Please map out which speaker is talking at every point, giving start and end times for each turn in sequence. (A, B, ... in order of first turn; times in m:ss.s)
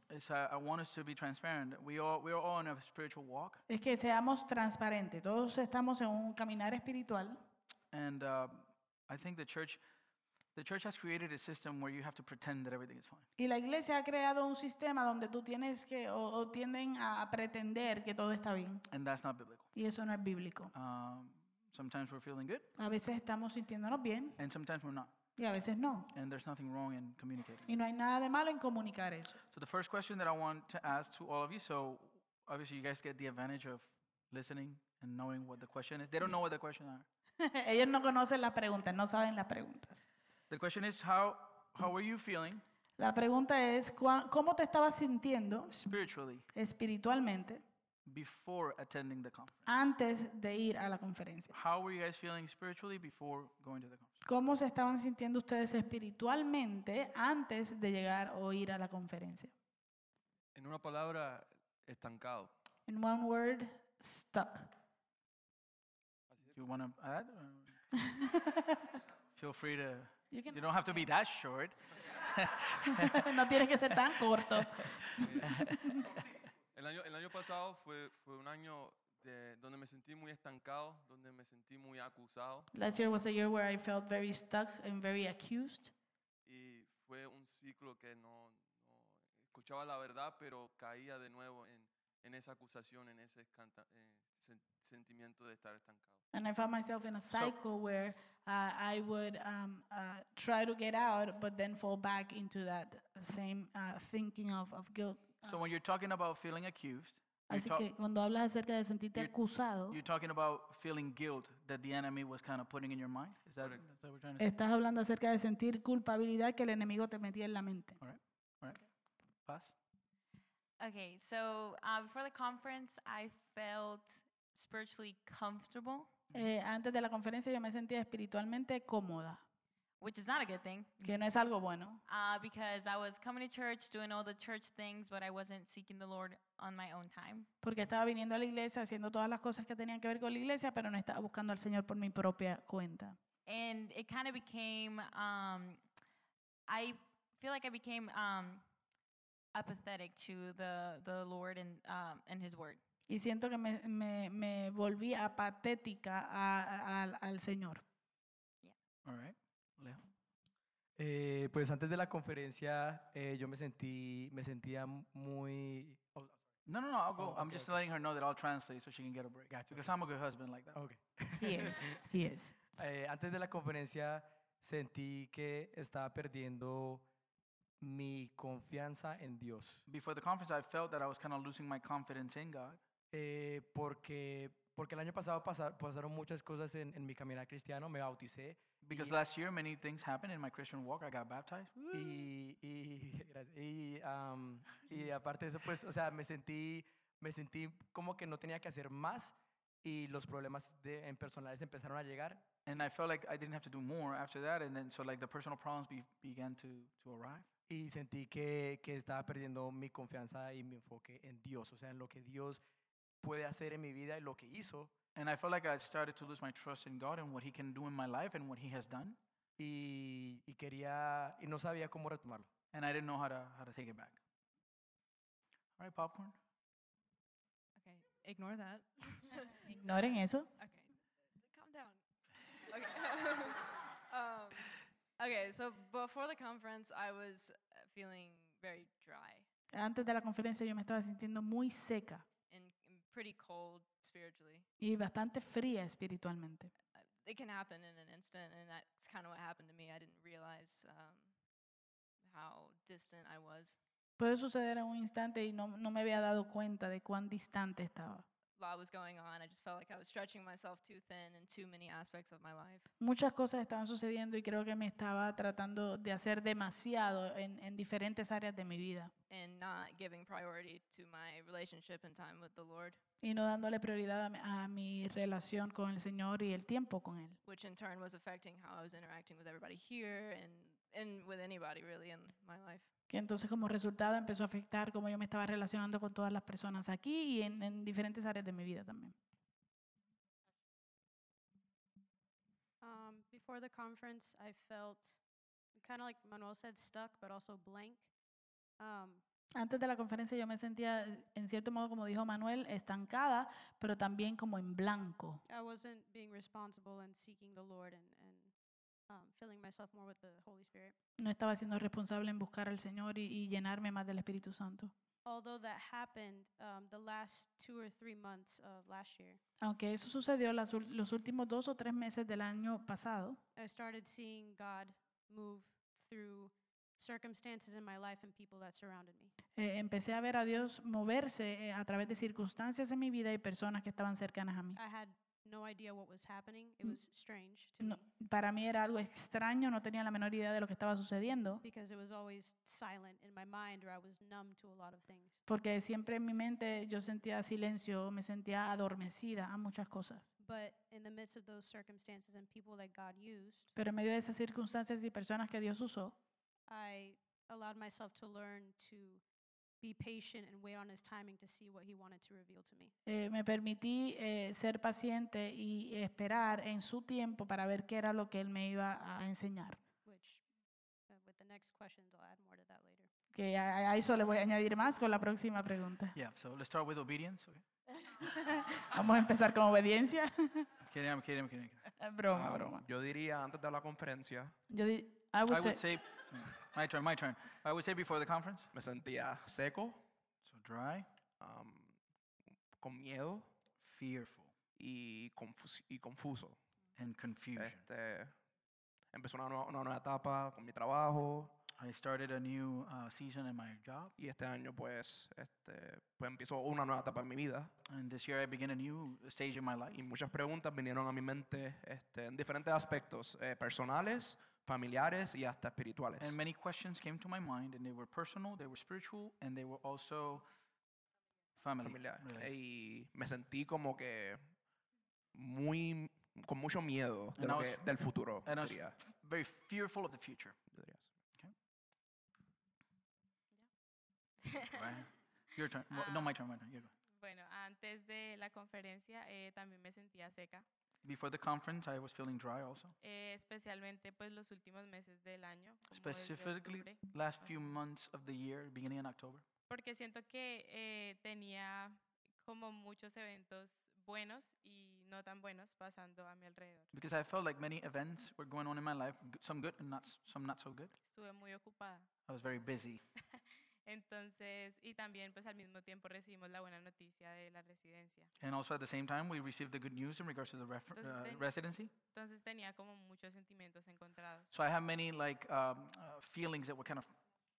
0:00.1-0:03.6 A
0:03.7-0:07.4 B
0:07.9-0:09.8 A
0:10.6-0:13.3 A
0:13.4-0:18.8 B
0:18.9-0:19.7 A
0:19.7-0:20.7 B
0:20.7-0:22.7 A
0:22.8-0:24.4 B
0:24.4-0:25.1 A
0:25.4-0:26.1 B
0:26.1-0:27.7 A
0:27.7-0:29.4 B
0:29.5-0:37.1 A
0:37.4-0:40.0 B
0:40.5-0:42.6 A
0:43.0-0:45.7 B
0:45.7-0:46.5 A
0:46.5-0:47.6 B
0:48.1-0:49.7 A
0:49.7-0:51.5 B
0:51.5-0:54.1 A
0:54.2-0:59.5 B
1:00.6-1:02.5 C
1:02.9-1:04.7 B
1:06.3-1:06.6 C
1:06.6-1:07.8 A
1:08.1-1:08.6 B
1:09.4-1:13.3 A
1:10.3-1:11.0 B
1:13.1-1:16.0 B
1:14.5-1:15.8 A
1:15.2-1:15.5 C
1:16.7-1:22.7 C
1:22.7-1:25.9 B
1:26.4-1:36.2 C
1:36.3-1:45.6 B
1:37.3-1:37.6 A
1:45.4-1:47.9 A
1:47.5-1:50.0 B
1:49.9-1:54.5 A
1:53.6-1:53.8 C
1:54.4-1:58.0 B
1:58.0-1:58.9 A
1:59.4-1:59.7 A
2:00.8-2:06.2 D
2:06.3-2:09.4 B
2:10.0-2:11.0 D
2:11.0-2:12.0 B
2:12.1-2:17.5 D
2:17.6-2:23.2 B
2:23.5-2:25.8 D
2:26.7-2:28.6 D
2:29.5-2:32.8 D
2:33.1-2:37.8 B
2:39.0-2:40.0 A
2:41.0-2:46.4 E
2:46.7-2:50.8 A
2:47.2-2:47.8 E
2:49.5-2:50.0 E
2:50.7-2:52.0 E
2:51.4-2:52.6 B
2:52.8-2:57.1 E
2:57.8-2:59.8 E
2:59.9-3:02.8 A
3:03.1-3:09.2 E
3:08.8-3:12.3 A
3:11.9-3:22.5 E
3:22.7-3:27.5 A
3:27.7-3:32.6 E
3:33.2-3:34.9 E
3:35.2-3:39.2 A
3:39.6-3:42.5 E
3:42.7-3:44.2 A
3:45.8-3:46.4 A
3:47.8-3:49.6 F
3:49.7-3:50.5 B
3:50.6-3:59.5 F
3:59.7-4:02.2 B
4:02.5-4:04.7 F
4:04.8-4:06.7 B
4:06.9-4:11.4 F
4:12.2-4:13.8 F
4:14.2-4:18.2 B
4:18.6-4:22.9 F
4:23.0-4:29.1 B
4:29.3-4:33.0 F
4:33.2-4:37.4 B
4:37.4-4:42.9 F
4:43.1-4:49.2 B
4:52.8-4:58.1 G
4:58.8-4:59.2 G
4:59.6-5:05.4 B
5:05.5-5:11.0 G
5:11.2-5:14.9 B
5:15.2-5:19.4 G
5:19.6-5:23.4 B
5:23.6-5:29.3 G
5:29.6-5:34.8 B
5:34.8-5:38.0 G
5:37.8-5:41.6 B
5:41.6-5:45.4 G
5:45.5-5:50.3 B
5:50.4-5:53.7 G
5:53.8-5:56.2 B
5:56.7-5:59.2 G
5:59.8-6:02.9 G
6:03.1-6:09.8 B
6:10.0-6:10.4 G
6:11.1-6:13.1 G
6:13.3-6:16.2 B
6:16.2-6:17.6 A
6:18.2-6:20.7 B
6:20.8-6:21.8 A
6:22.0-6:22.8 B
6:22.4-6:24.6 H
6:24.7-6:25.8 B
6:25.5-6:28.7 A
6:28.7-6:30.0 H
6:30.4-6:31.1 A
6:31.4-6:32.0 H
6:32.8-6:33.5 H
6:33.8-6:34.5 A
6:34.8-6:36.6 H
6:37.0-6:37.8 A
6:37.6-6:38.4 H
6:39.1-6:41.6 H
6:41.8-6:44.1 A
6:44.2-6:47.7 H
6:47.9-6:50.0 A
6:49.9-6:56.4 H
6:56.2-7:00.4 A
7:01.6-7:02.5 A
7:01.8-7:04.4 H
7:05.3-7:09.0 H
7:07.4-7:07.9 A
7:08.4-7:10.6 A
7:10.7-7:11.1 H
7:14.7-7:16.9 A
7:15.9-7:16.3 I
7:17.2-7:20.6 I
7:21.0-7:23.0 A
7:23.0-7:27.6 I
7:25.9-7:29.4 A
7:29.7-7:36.9 I
7:36.9-7:40.9 A
7:41.0-7:42.1 I
7:42.3-7:43.0 A
7:43.3-7:48.3 I
7:48.4-7:51.9 A
7:50.9-7:51.5 I
7:52.1-7:54.5 I
7:54.5-7:57.1 A